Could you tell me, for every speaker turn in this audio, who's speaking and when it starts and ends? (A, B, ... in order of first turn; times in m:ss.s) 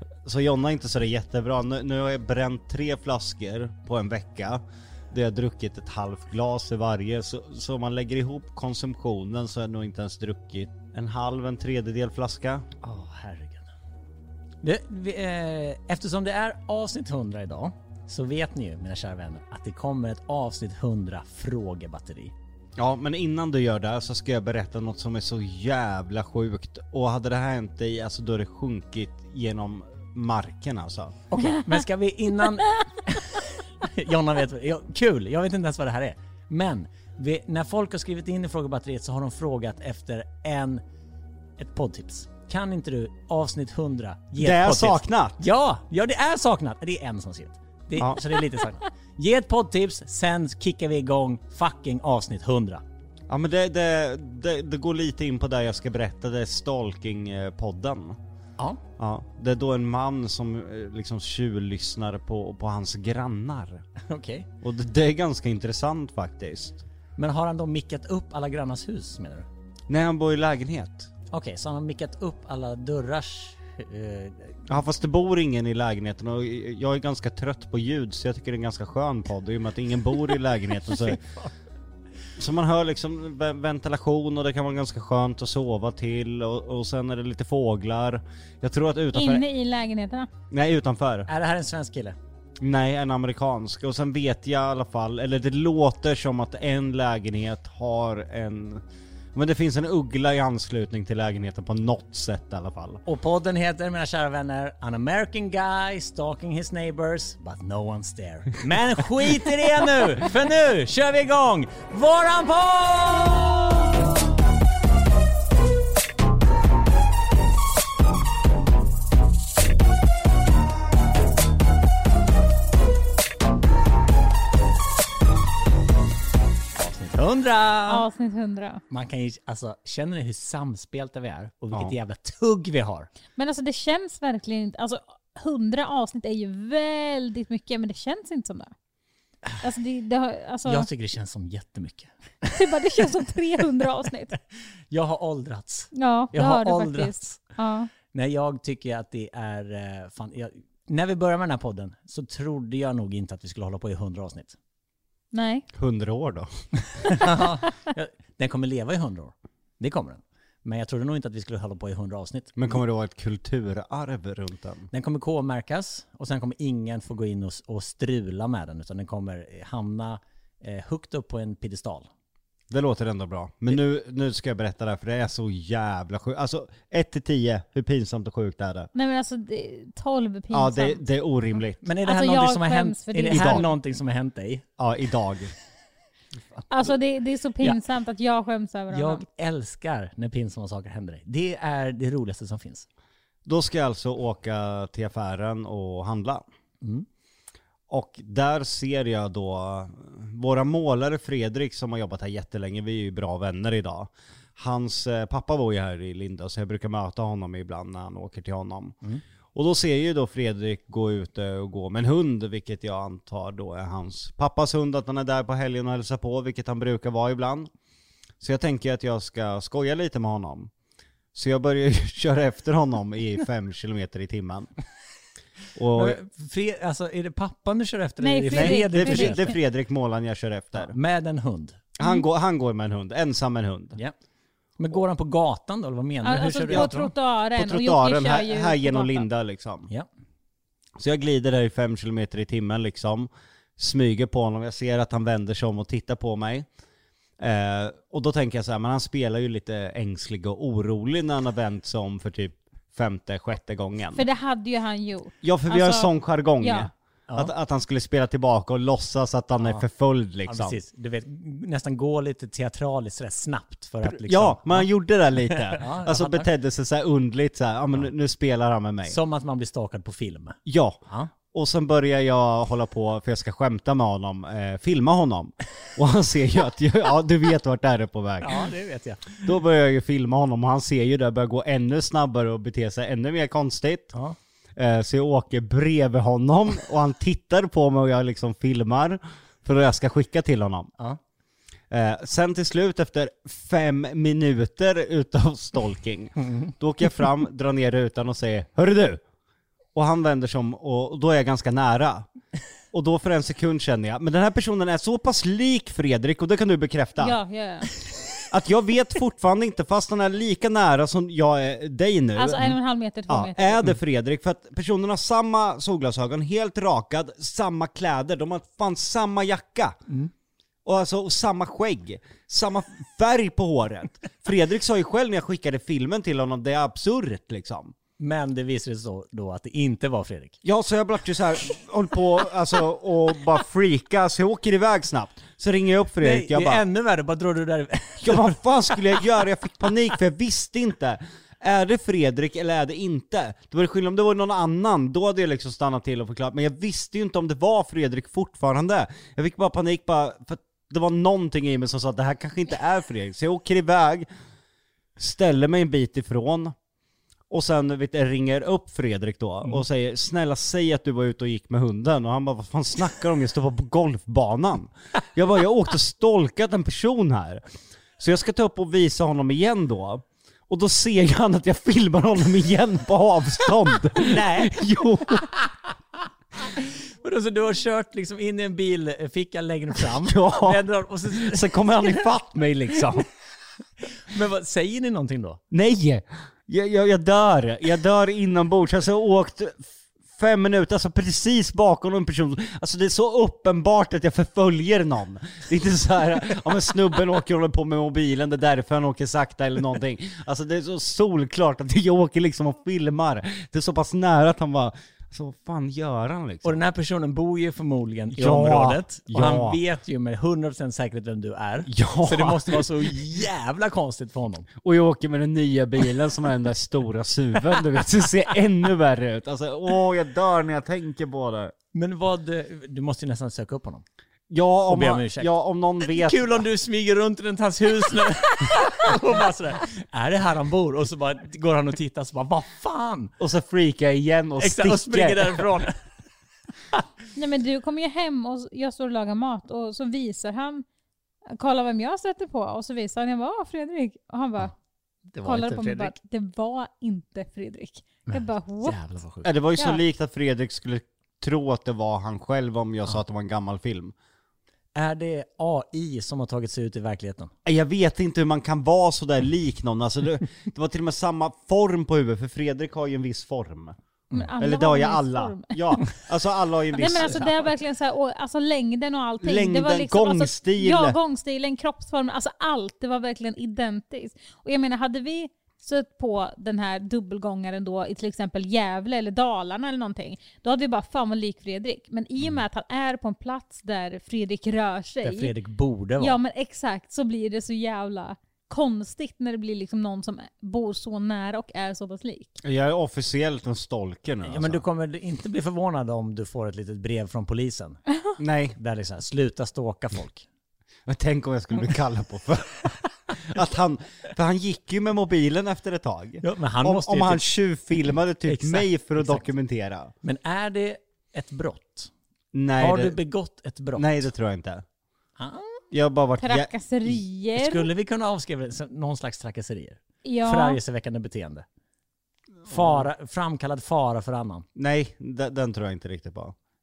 0:00.2-0:12.6 A
0:12.8-0:13.7 B
0:14.6-0:22.3 B
0:22.8-0:31.2 A
0:31.3-0:40.8 B
0:41.6-0:52.8 B
0:44.4-0:45.4 A
0:48.0-0:48.2 A
0:53.3-0:58.2 A
0:59.0-1:03.8 A
1:04.1-1:04.5 B
1:04.6-1:06.8 A
1:07.2-1:09.5 B
1:09.9-1:11.1 A
1:11.3-1:14.7 B
1:14.7-1:21.3 A
1:22.4-1:29.4 A
1:29.1-1:30.3 C
1:30.5-1:31.3 A
1:31.3-1:32.2 B
1:32.6-1:38.8 A
1:39.3-1:43.0 A
1:43.0-1:53.9 B
2:06.8-2:08.0 B
2:07.9-2:08.8 C
2:08.9-2:13.1 B
2:13.4-2:18.7 C
2:19.6-2:20.9 C
2:20.6-2:23.0 B
2:22.5-2:24.4 C
2:24.9-2:27.4 B
2:25.9-2:27.9 C
2:28.1-2:34.6 B
2:35.3-2:35.6 C
2:35.7-2:37.3 A
2:37.0-2:42.6 B
2:42.6-2:44.9 A
2:44.9-2:52.1 B
2:52.7-2:58.9 A
2:58.9-3:01.0 C
3:00.5-3:01.8 A
3:01.8-3:04.6 B
3:02.0-3:03.7 C
3:03.3-3:03.6 A
3:04.8-3:05.5 A
3:06.7-3:09.2 C
3:08.9-3:12.8 B
3:13.4-3:16.4 A
3:17.9-3:29.0 A
3:29.5-3:37.7 A
3:38.4-3:40.7 A
3:41.3-3:44.7 A
3:45.8-3:46.2 A
3:45.9-3:49.5 B
3:48.2-3:49.6 C
3:48.5-3:51.0 A
3:50.7-3:51.8 B
3:52.0-3:54.0 A
3:54.8-3:57.1 B
3:56.2-3:59.2 C
3:57.6-3:59.9 A
4:01.0-4:06.7 A
4:07.4-4:14.2 A
4:14.1-4:16.9 C
4:15.4-4:20.8 A
4:19.6-4:19.8 B
4:20.4-4:24.9 B
4:24.0-4:29.2 A
4:25.5-4:26.5 B
4:29.0-4:31.3 B
4:30.6-4:31.0 A
4:31.5-4:38.7 A
4:38.4-4:39.5 B
4:39.4-4:44.1 A
4:44.8-4:50.9 A
4:51.9-4:59.2 A
4:59.9-5:02.3 A
5:02.9-5:07.4 A
5:07.2-5:07.9 C
5:08.5-5:12.8 A
5:12.3-5:13.9 C
5:13.3-5:20.0 A
5:20.8-5:27.9 A
5:28.2-5:30.6 B
5:30.6-5:36.8 A
5:36.2-5:38.4 B
5:38.2-5:54.2 A
5:55.2-5:56.7 A
5:57.5-6:07.6 A
6:08.2-6:15.5 A
6:14.2-6:14.8 B
6:16.7-6:21.9 B
6:20.0-6:23.3 A
6:24.0-6:25.6 B
6:25.7-6:46.8 A
6:46.6-6:54.7 B
6:48.3-6:49.8 A
6:51.8-6:53.2 A
6:54.8-7:01.7 A
7:01.9-7:04.0 B
7:04.5-7:06.6 A
7:04.9-7:13.3 B
7:13.4-7:15.8 A
7:14.6-7:16.0 B
7:17.3-7:20.8 C
7:21.5-7:24.7 C
7:25.3-7:26.1 B
7:25.4-7:29.0 C
7:28.3-7:29.5 B
7:29.4-7:34.1 A
7:34.9-7:37.5 B
7:37.6-7:43.9 A
7:44.3-7:46.1 C
7:44.6-7:47.7 A
7:46.9-8:05.5 C
7:49.4-7:51.2 A
8:05.2-8:06.4 B
8:06.2-8:12.6 C
8:12.6-8:14.8 A
8:14.4-8:18.0 B
8:18.4-8:18.8 A
8:18.8-8:20.4 B
8:21.0-8:30.1 A
8:26.4-8:29.5 B
8:30.2-8:32.1 B
8:32.5-8:33.2 A
8:32.8-8:34.2 B
8:34.0-8:34.8 A
8:35.4-8:35.8 B
8:35.9-8:37.2 A
8:36.4-8:37.9 C
8:37.6-8:41.6 B
8:40.2-8:40.8 C
8:42.6-8:44.6 B
8:42.7-8:43.0 A
8:44.8-8:46.5 A